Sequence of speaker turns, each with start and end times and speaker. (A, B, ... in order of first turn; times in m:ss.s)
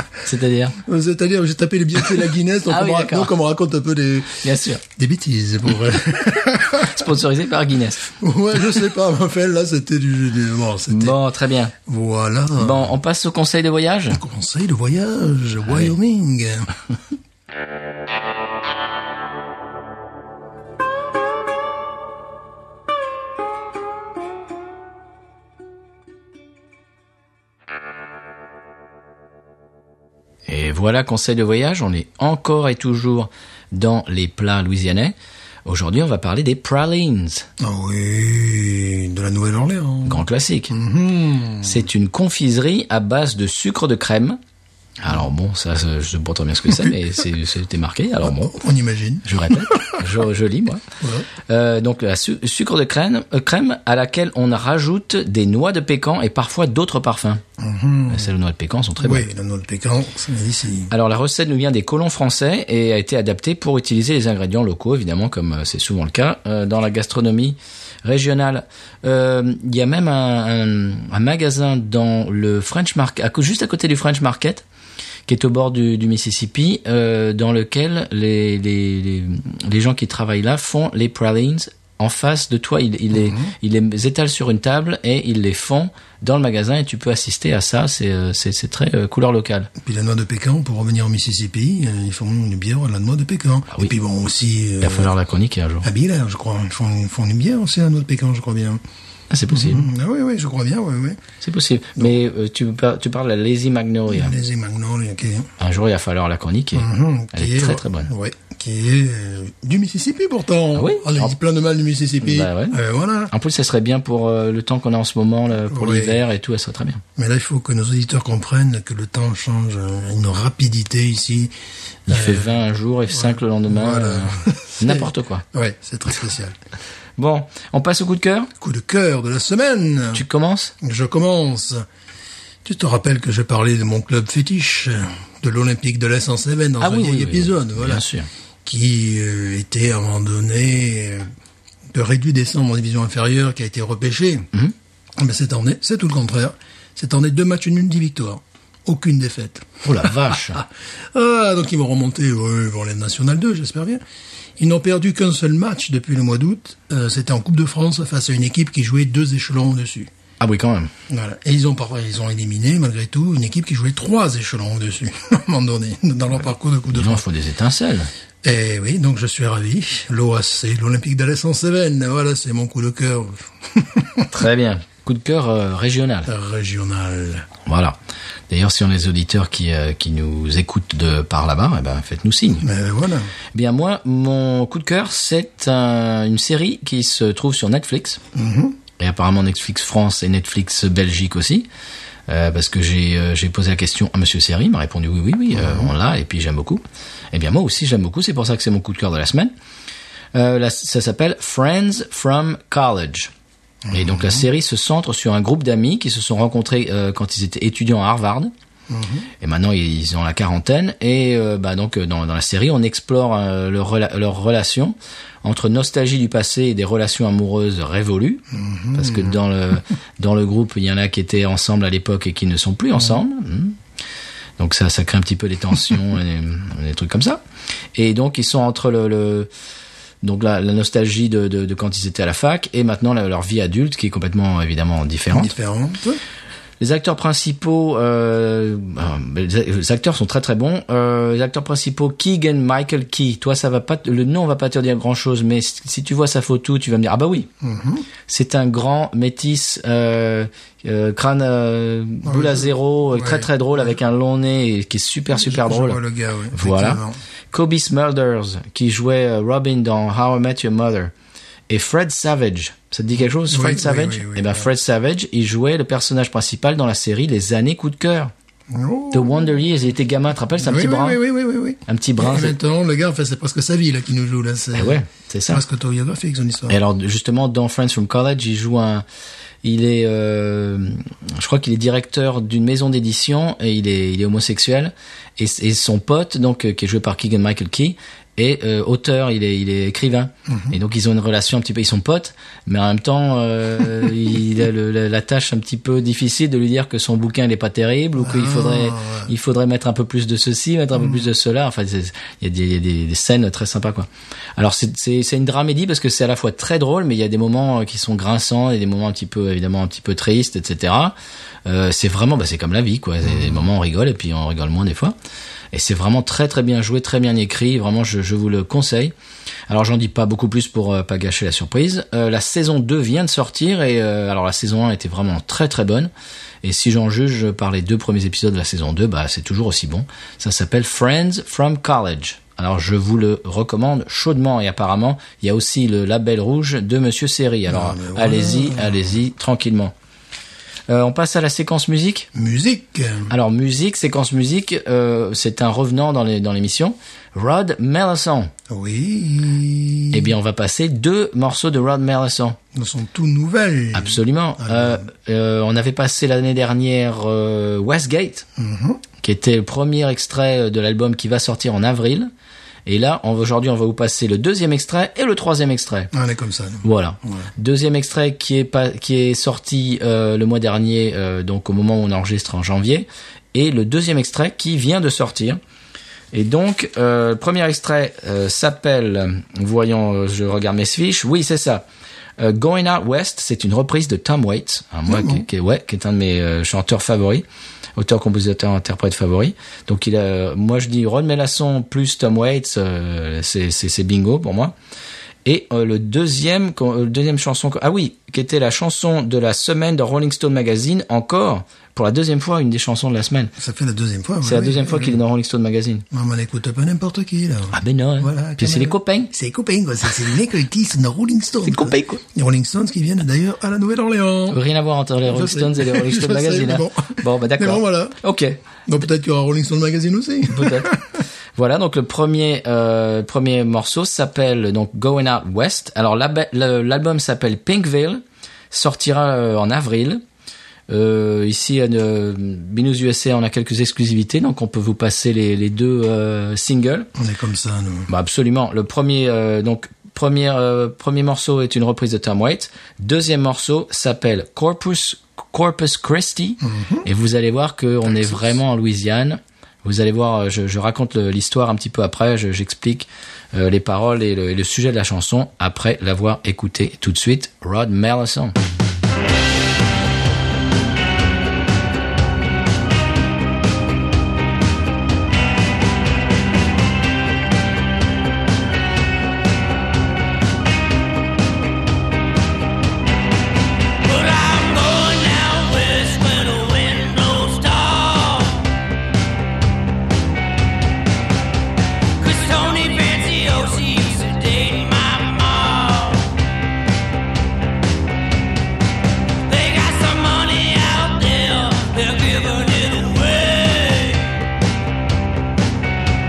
0:00.2-0:00.8 A
0:00.8-0:07.0 B
0:02.7-0:03.3 A
0:04.4-0:04.8 A
0:06.7-0:08.1 A
0:08.2-0:11.2 B
0:10.9-0:11.7 A
0:11.9-0:12.9 B
0:12.6-0:14.2 A
0:14.1-0:16.7 B
0:15.6-0:15.9 A
0:30.5-0:37.5 A
0:37.6-0:41.9 B
0:40.1-0:40.8 A
0:41.6-0:44.4 A
0:45.0-0:48.6 A
0:46.7-0:47.0 B
0:48.2-0:50.0 B
0:49.2-0:50.8 A
0:51.0-0:51.3 B
0:51.5-0:57.4 A
0:57.6-0:58.3 B
0:58.1-0:59.3 A
0:59.0-1:00.9 B
1:00.9-1:14.6 A
1:15.3-1:29.7 A
1:23.1-1:23.5 B
1:29.8-1:35.1 B
1:34.8-1:35.9 A
1:35.8-1:38.8 B
1:39.3-1:39.8 A
1:39.5-1:41.2 B
1:41.4-1:44.3 A
1:44.1-1:45.5 B
1:45.6-1:48.1 A
1:46.8-1:53.3 B
1:50.8-1:51.3 A
1:52.2-1:52.8 A
1:53.3-1:57.0 A
1:55.7-1:56.2 B
1:57.2-2:01.5 B
2:02.1-2:05.4 A
2:02.1-2:02.5 B
2:03.1-2:06.6 B
2:07.2-2:08.5 A
2:08.6-2:10.2 B
2:10.1-2:10.7 A
2:10.8-2:11.9 B
2:12.6-2:18.0 B
2:16.8-2:18.3 A
2:18.6-2:21.3 B
2:21.9-2:24.5 B
2:25.2-2:34.0 B
2:29.8-2:30.6 A
2:34.6-2:40.1 B
2:40.4-2:40.9 A
2:41.1-2:47.2 B
2:46.9-2:48.1 A
2:48.4-2:54.3 B
2:54.3-2:56.3 A
2:56.3-2:57.5 B
2:57.6-2:58.0 A
2:58.5-3:02.6 A
3:02.6-3:03.3 B
3:03.5-3:08.2 A
3:08.4-3:08.8 B
3:09.0-3:11.7 A
3:12.3-3:19.5 A
3:15.5-3:15.9 B
3:20.3-3:23.3 A
3:23.9-3:24.5 B
3:23.9-3:28.5 A
3:28.9-3:29.3 B
3:29.4-3:38.4 A
3:38.5-3:39.4 B
3:38.9-3:43.8 A
3:44.6-3:47.4 A
3:48.0-3:49.5 A
3:50.2-3:55.5 A
3:55.3-3:56.2 B
3:56.8-4:07.5 A
4:07.6-4:08.1 B
4:08.3-4:16.0 A
4:12.2-4:14.0 B
4:15.3-4:17.2 B
4:16.5-4:17.0 A
4:17.5-4:21.1 A
4:21.7-4:28.3 A
4:23.2-4:24.7 B
4:28.7-4:29.6 B
4:29.1-4:31.2 A
4:30.6-4:36.8 B
4:31.9-4:32.6 A
4:34.8-4:35.6 A
4:36.7-4:39.0 A
4:39.6-5:15.2 A
4:50.5-4:50.8 B
4:58.2-4:59.3 B
5:13.3-5:13.6 B
5:15.7-5:19.1 A
5:19.7-5:26.1 A
5:26.6-5:39.9 A
5:37.7-5:39.1 B
5:40.9-5:42.3 A
5:42.3-5:43.3 B
5:43.3-5:48.5 A
5:48.7-5:50.4 B
5:50.1-5:52.6 A
5:52.7-5:55.0 B
5:53.9-5:58.5 A
5:58.6-5:59.0 B
5:59.2-6:02.3 A
6:02.9-6:06.1 A
6:06.1-6:07.5 B
6:06.8-6:15.6 A
6:16.3-6:21.9 A
6:22.4-6:27.4 A
6:25.1-6:25.4 B
6:28.0-6:34.7 A
6:35.4-6:43.5 A
6:43.6-6:45.2 B
6:44.4-6:46.0 A
6:46.1-6:54.6 B
6:47.7-6:49.3 A
6:51.6-6:52.2 A
6:54.5-6:58.6 A
6:55.3-6:58.2 B
6:58.9-7:01.2 B
7:00.5-7:00.9 A
7:01.6-7:10.2 A
7:10.9-7:17.1 A
7:17.2-7:18.1 B
7:18.1-7:38.6 A
7:26.6-7:27.1 B
7:54.0-7:58.7 C
8:02.2-8:06.4 C
8:09.5-8:14.4 C